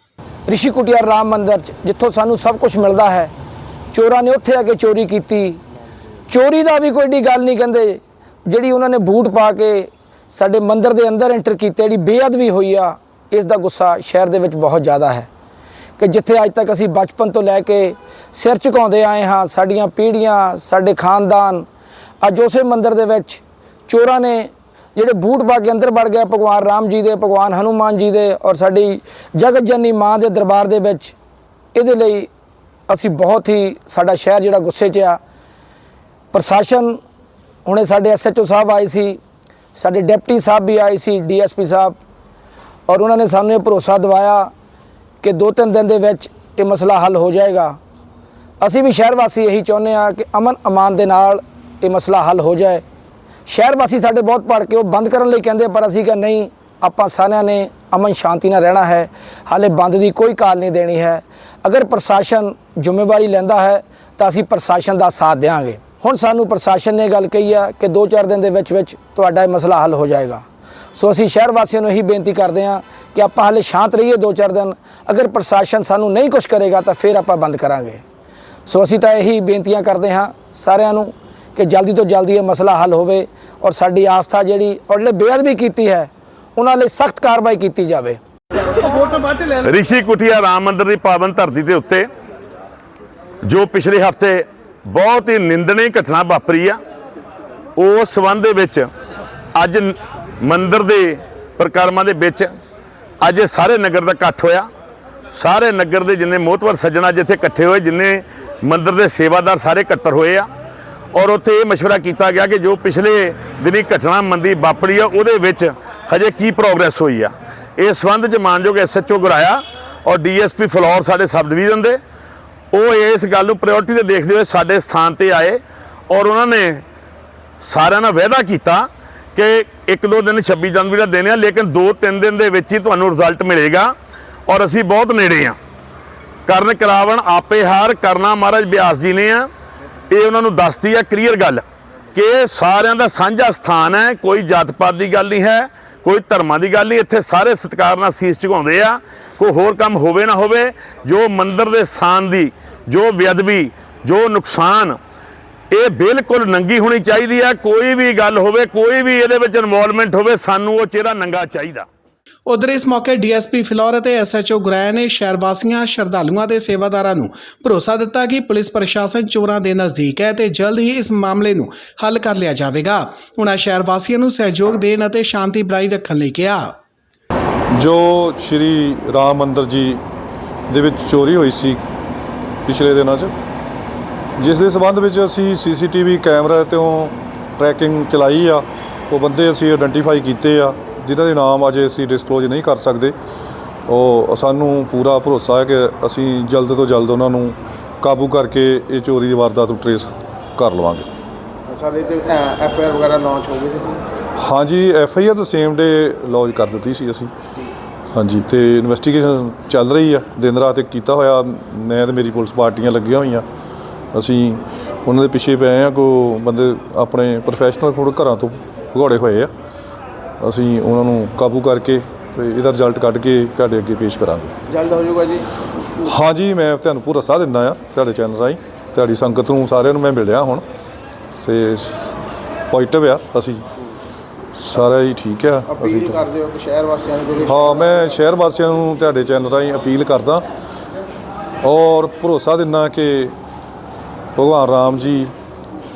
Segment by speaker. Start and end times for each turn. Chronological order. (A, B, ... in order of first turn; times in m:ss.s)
0:00.5-0:03.3 A
0:03.9-0:05.6 A
0:06.3-0:15.3 A
0:16.0-0:21.7 A
0:22.2-0:31.1 A
0:31.7-0:32.3 A
0:32.9-0:35.2 A
0:36.3-0:37.0 A
0:37.6-0:39.2 A
0:39.8-0:42.0 A
0:42.9-0:44.5 A
0:45.2-0:47.8 A
0:48.6-0:52.8 A
0:53.5-1:10.4 A
1:11.0-1:18.0 A
1:18.7-1:28.2 A
1:29.2-1:32.1 B
1:33.4-1:36.8 B
1:37.8-1:38.9 B
1:39.6-1:42.5 B
1:43.2-1:44.7 B
1:45.3-1:50.5 B
1:51.1-2:02.0 B
2:02.7-2:06.8 B
2:07.6-2:13.9 B
2:14.5-2:15.6 B
2:16.5-2:19.5 B
2:20.1-2:35.0 B
2:35.7-2:41.9 B
2:42.5-2:56.8 C
2:57.7-3:00.0 D
3:00.7-3:01.8 D
3:02.7-3:03.3 D
3:04.4-3:13.1 D
3:13.9-3:21.1 D
3:21.7-3:24.0 E
3:24.4-3:27.3 D
3:28.2-3:33.4 D
3:34.1-3:39.5 D
3:40.4-3:44.6 D
3:44.7-3:45.5 E
3:46.0-3:50.6 D
3:51.3-3:53.6 D
3:54.6-3:56.2 D
3:55.7-3:57.9 E
3:57.5-4:00.4 D
4:01.6-4:03.4 D
4:04.4-4:05.3 D